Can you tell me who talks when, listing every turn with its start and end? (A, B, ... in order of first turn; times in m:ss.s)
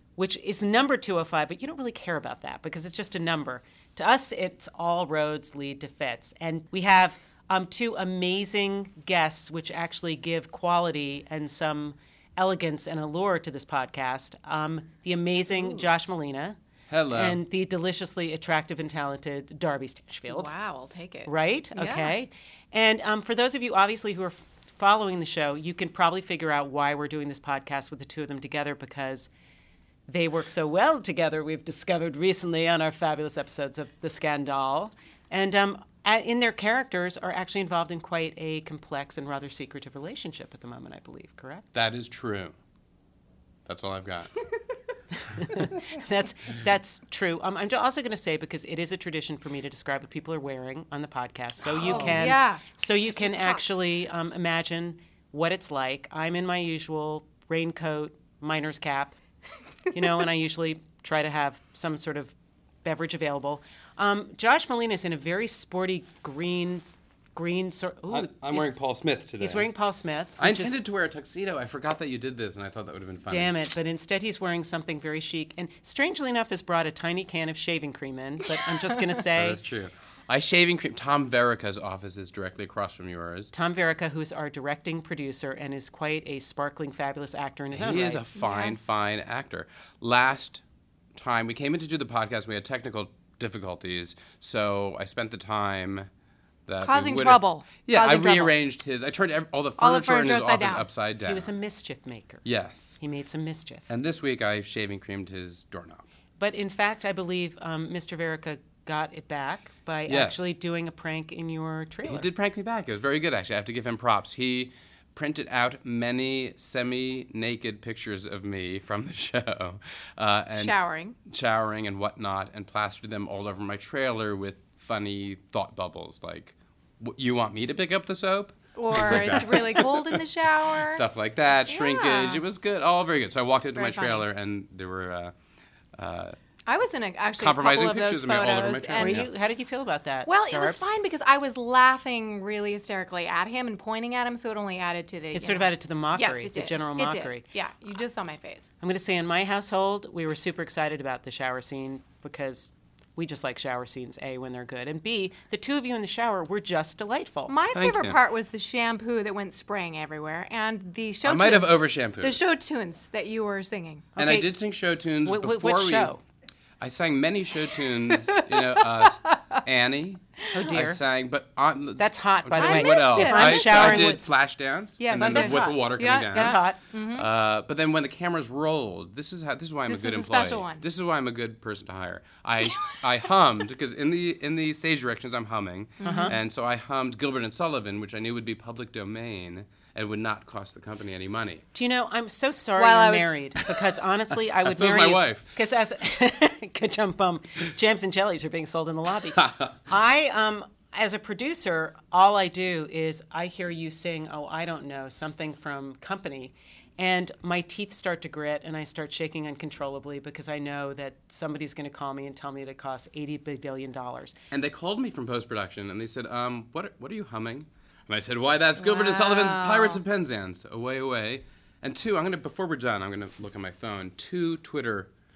0:00.2-0:16.6 A
0:15.5-0:15.9 B
0:16.9-0:17.4 C
0:17.1-0:20.5 A
0:20.3-0:22.1 B
0:21.2-0:29.3 A
0:30.1-0:41.6 A
0:41.7-0:42.6 C
0:43.6-0:44.3 C
0:45.2-0:59.2 A
0:51.7-0:53.8 B
0:51.8-0:52.3 C
0:59.9-1:08.7 A
1:08.1-1:09.7 C
1:09.4-1:10.8 A
1:10.4-1:13.5 C
1:13.3-1:19.6 A
1:19.3-1:23.5 C
1:23.5-1:28.2 A
1:27.7-1:30.6 C
1:28.4-1:28.8 B
1:31.1-1:36.1 C
1:36.7-1:41.5 C
1:36.8-1:38.6 B
1:39.8-1:40.8 B
1:41.2-1:42.4 A
1:42.4-1:43.0 C
1:43.0-1:43.9 A
1:43.9-1:46.0 C
1:46.4-1:52.3 A
1:50.1-1:50.4 C
1:52.1-2:00.7 C
2:00.6-2:01.2 B
2:01.3-2:10.2 C
2:08.7-2:11.0 B
2:10.8-2:15.3 C
2:11.7-2:12.4 B
2:13.8-2:14.2 B
2:16.0-2:16.4 C
2:16.6-2:19.3 B
2:17.4-2:19.3 C
2:18.9-2:20.9 A
2:20.2-2:28.7 B
2:25.3-2:27.4 A
2:28.8-2:37.6 A
2:37.5-2:44.1 B
2:37.7-2:38.2 C
2:41.2-2:42.4 C
2:44.2-2:44.5 A
2:44.2-2:46.1 C
2:45.2-2:46.2 A
2:46.8-2:56.6 C
2:48.1-2:49.6 B
2:50.5-2:51.0 A
2:52.0-2:54.2 A
2:52.6-2:54.2 B
2:55.0-2:57.3 B
2:55.2-2:56.8 A
2:57.1-3:11.6 C
2:59.9-3:00.8 B
3:06.0-3:06.4 B
3:06.0-3:06.3 A
3:11.7-3:34.3 A
3:12.8-3:13.3 B
3:14.6-3:15.4 C
3:19.3-3:19.7 C
3:34.5-3:45.1 C
3:38.8-3:40.0 B